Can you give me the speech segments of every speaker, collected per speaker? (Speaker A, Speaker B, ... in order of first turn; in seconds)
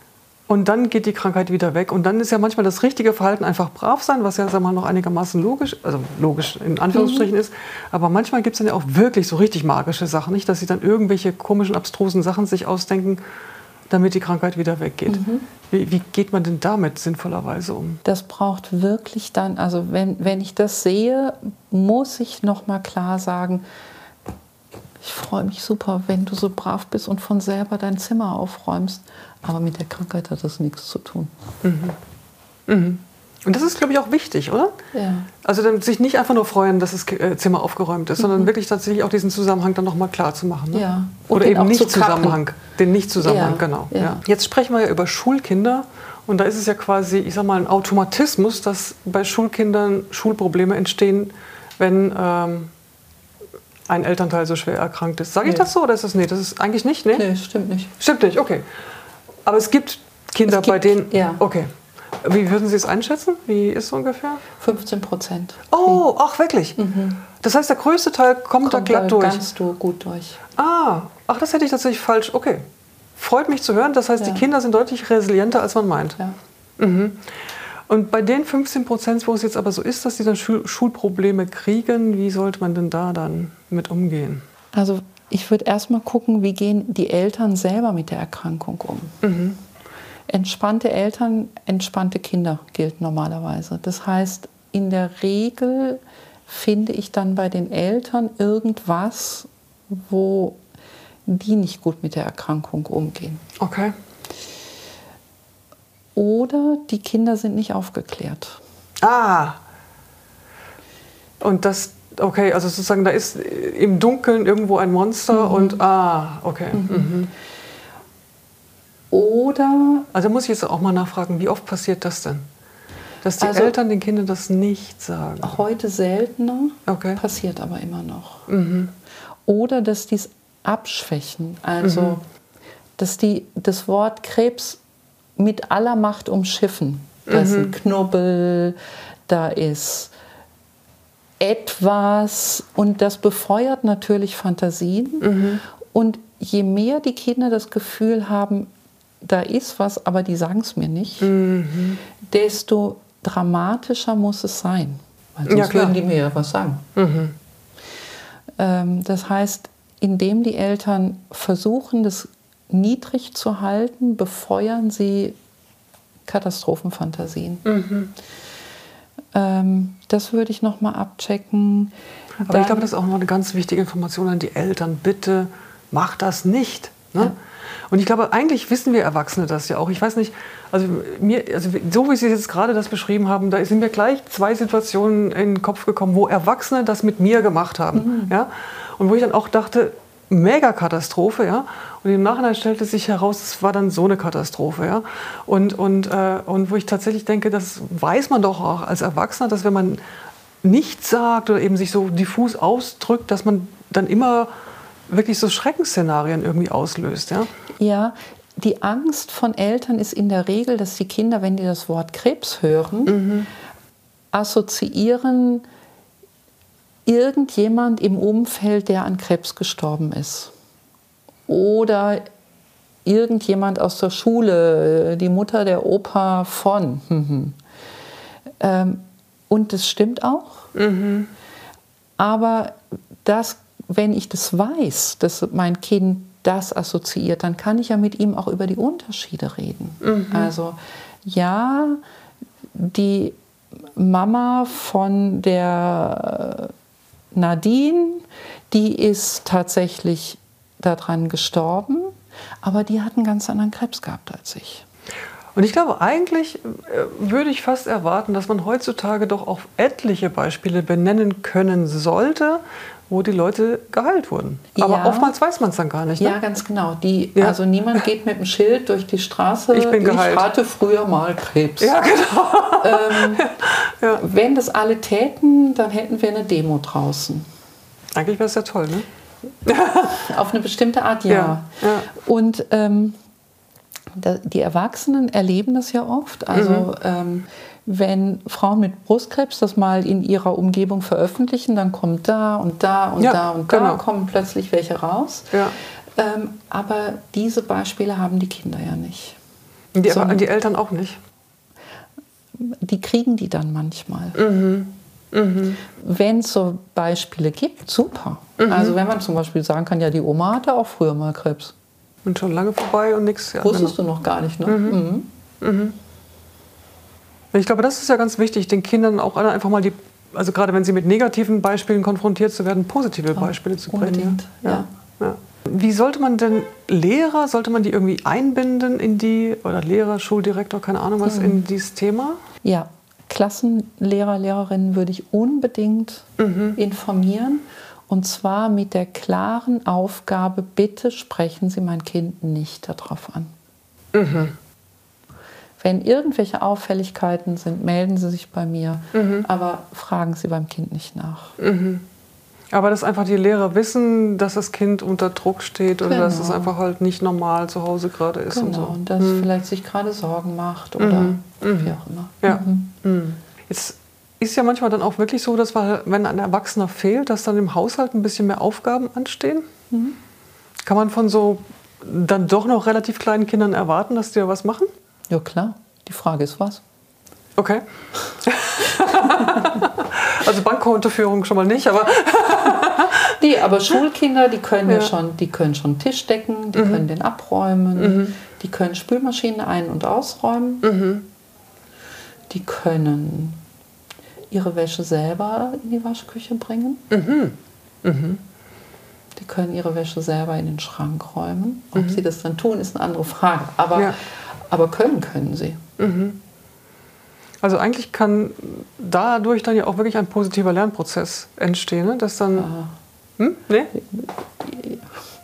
Speaker A: 0.5-13.2, 13.9-18.0, 31.6-32.0, 32.7-34.7, 35.4-52.7, 53.9-57.2, 58.0-58.6, 59.5-61.7, 62.2-64.4, 65.7-66.8, 67.4-69.4, 70.6-72.6, 73.2-76.2, 76.8-77.2, 77.9-84.4, 89.2-89.6, 103.6-103.9, 109.0-109.6, 111.4-117.3, 120.1-122.5, 123.2-125.6, 126.9-127.2, 128.5-128.9, 131.8-132.2, 137.3-137.8, 145.2-145.6, 151.2-152.0, 155.5-155.9, 157.0-157.3, 167.6-168.1, 172.4-177.4, 177.9-200.0, 200.6-204.5, 205.1-207.5, 213.1-213.5, 230.7-231.3, 240.0-240.5, 255.6-266.4, 269.7-270.5, 271.8-274.2, 278.1-279.1, 279.6-280.3, 281.3-282.1, 286.5-286.9, 293.2-294.0, 299.9-301.2, 304.4-305.8, 308.6-308.9, 312.2-314.0, 314.6-315.0, 315.6-315.9, 317.5-332.4, 336.4-336.8, 344.1-344.6, 349.1-349.5, 351.6-352.1, 352.7-359.5, 361.0-369.6, 370.8-374.9, 377.6-383.3, 384.9-385.1, 386.8-387.0, 388.0-388.4, 390.8-391.2, 397.1-398.4, 401.9-402.2, 406.0-406.4, 407.6-412.7, 413.4-413.9
Speaker B: 6.9-7.3, 15.1-15.5, 18.0-23.6, 25.0-31.3, 34.9-35.3, 38.2-38.5, 40.7-42.4, 43.2-44.2, 57.1-57.9, 60.5-61.4, 64.6-66.0, 66.8-67.2, 68.6-70.4, 74.2-74.5, 84.7-89.2, 90.3-100.6, 101.2-103.4, 106.1-108.6, 115.3-115.8, 116.7-117.1, 119.1-120.1, 123.4-123.7, 125.4-128.5, 129.5-132.2, 133.0-134.8, 135.4-140.1, 141.4-151.3, 152.2-156.8, 158.6-165.4, 166.2-167.7, 169.3-171.9, 172.5-172.9, 187.9-188.3, 207.8-213.2, 214.3-215.7, 217.1-220.5, 221.5-222.2, 223.1-227.6, 228.6-230.7, 232.2-242.0, 242.7-246.7, 247.3-254.8, 264.8-265.3, 266.2-272.0, 272.8-273.4, 274.1-277.5, 280.1-283.2, 284.1-295.5, 296.1-299.4, 300.1-300.4, 302.6-304.4, 305.9-311.7, 313.6-315.3, 323.4-324.9, 331.2-331.6, 332.6-343.5, 345.8-351.6, 356.0-356.7, 358.5-362.9, 369.9-370.2, 375.3-376.8, 379.1-379.7, 383.4-390.8, 392.5-393.6, 394.5-397.0, 399.4-404.1, 404.7-405.8, 412.6-412.9, 413.9-415.2